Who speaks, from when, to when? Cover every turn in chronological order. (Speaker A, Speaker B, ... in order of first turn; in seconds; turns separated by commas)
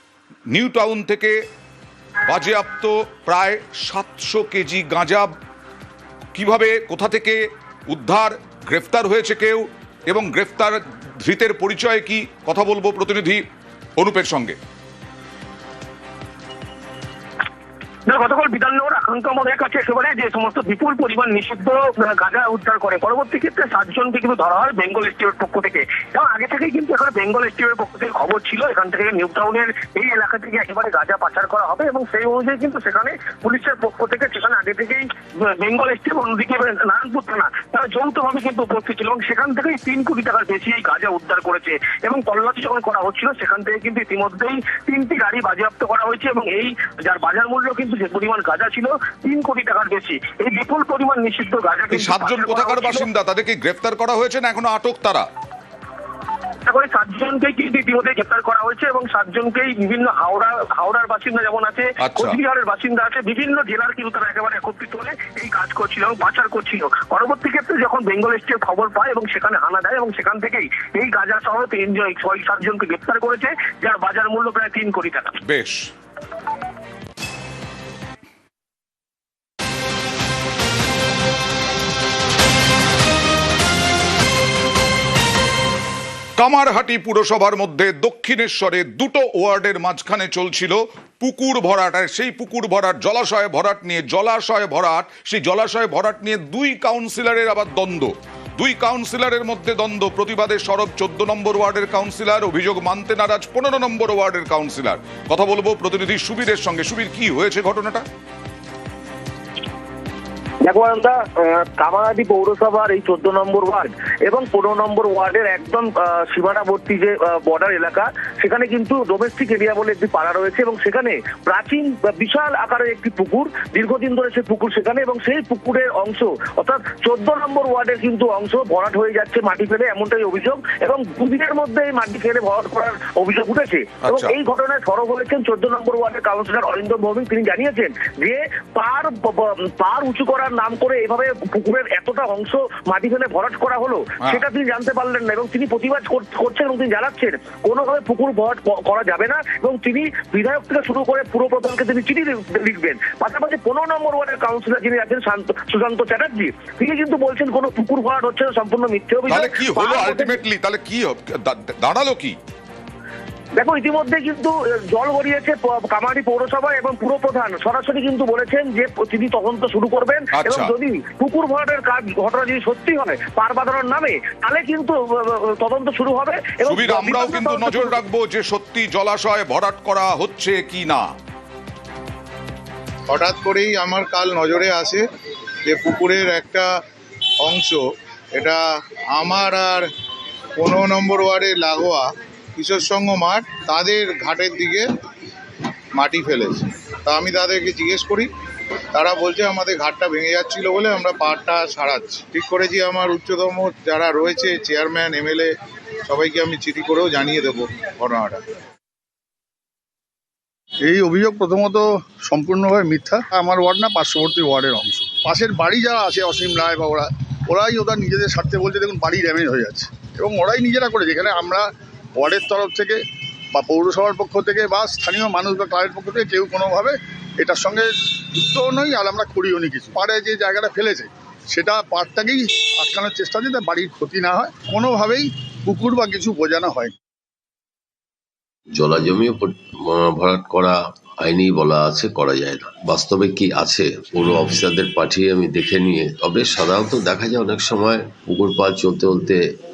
Speaker A: 0.5-1.4, Speaker A: 2.3-5.3, Speaker A: 6.3-13.4, Speaker A: 14.0-14.6, Speaker B: 18.1-53.1, Speaker A: 51.9-55.3, Speaker B: 56.7-75.3, Speaker A: 62.0-62.4, Speaker A: 75.5-75.9, Speaker A: 86.4-108.0, Speaker C: 110.6-160.4, Speaker A: 134.0-134.3, Speaker A: 159.3-162.4, Speaker C: 163.6-178.0, Speaker A: 170.4-170.7, Speaker A: 176.7-181.1, Speaker D: 183.1-185.1, Speaker D: 185.7-186.7, Speaker D: 187.4-189.9, Speaker D: 190.6-194.9, Speaker D: 196.0-198.3, Speaker D: 198.9-205.5, Speaker D: 206.1-208.4, Speaker E: 210.8-223.0, Speaker E: 223.5-236.9, Speaker F: 238.7-249.5